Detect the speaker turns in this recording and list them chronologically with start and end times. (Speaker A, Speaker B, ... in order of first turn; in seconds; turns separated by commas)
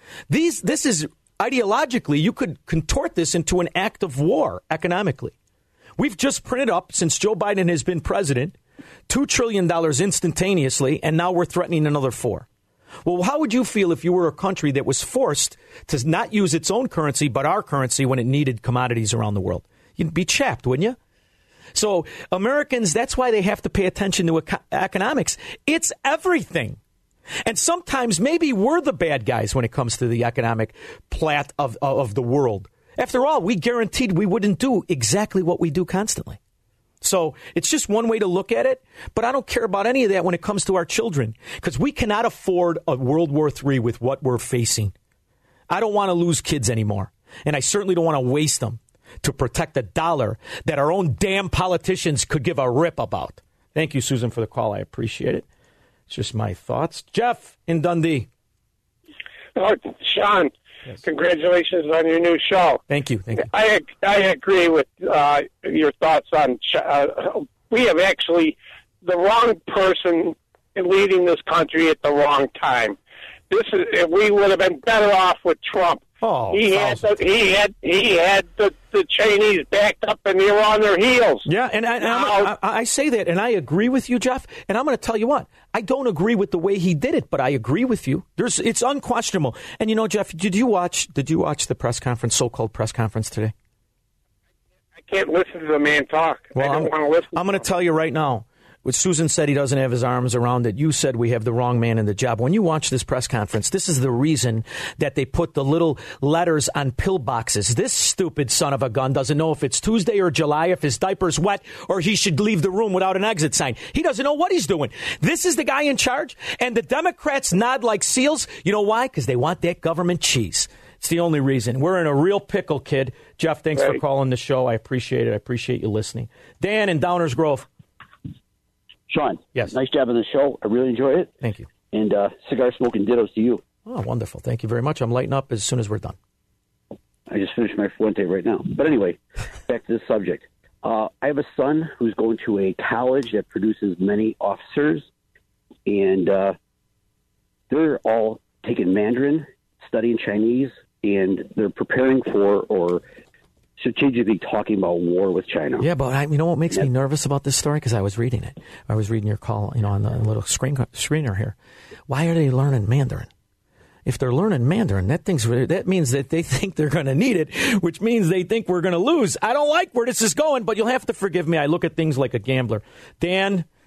Speaker A: 0.3-5.3, Speaker A: 6.0-8.6, Speaker A: 9.1-12.5, Speaker A: 13.0-21.0, Speaker A: 21.7-26.8, Speaker A: 27.4-36.4, Speaker A: 37.0-44.9, Speaker A: 45.7-55.5, Speaker A: 56.1-58.3, Speaker B: 59.5-60.5, Speaker B: 61.0-62.8, Speaker A: 62.9-63.5, Speaker B: 63.4-73.0, Speaker B: 73.5-81.5, Speaker A: 76.2-77.1, Speaker A: 81.5-93.5, Speaker B: 82.0-82.5, Speaker B: 95.0-97.6, Speaker A: 96.5-127.7, Speaker C: 129.1-131.3, Speaker A: 131.4-131.7, Speaker C: 131.9-133.6, Speaker A: 133.9-136.2, Speaker C: 137.3-145.1, Speaker C: 145.9-146.6, Speaker C: 147.7-153.0, Speaker C: 153.8-155.9, Speaker A: 155.8-161.6, Speaker A: 162.1-163.3, Speaker A: 164.1-173.7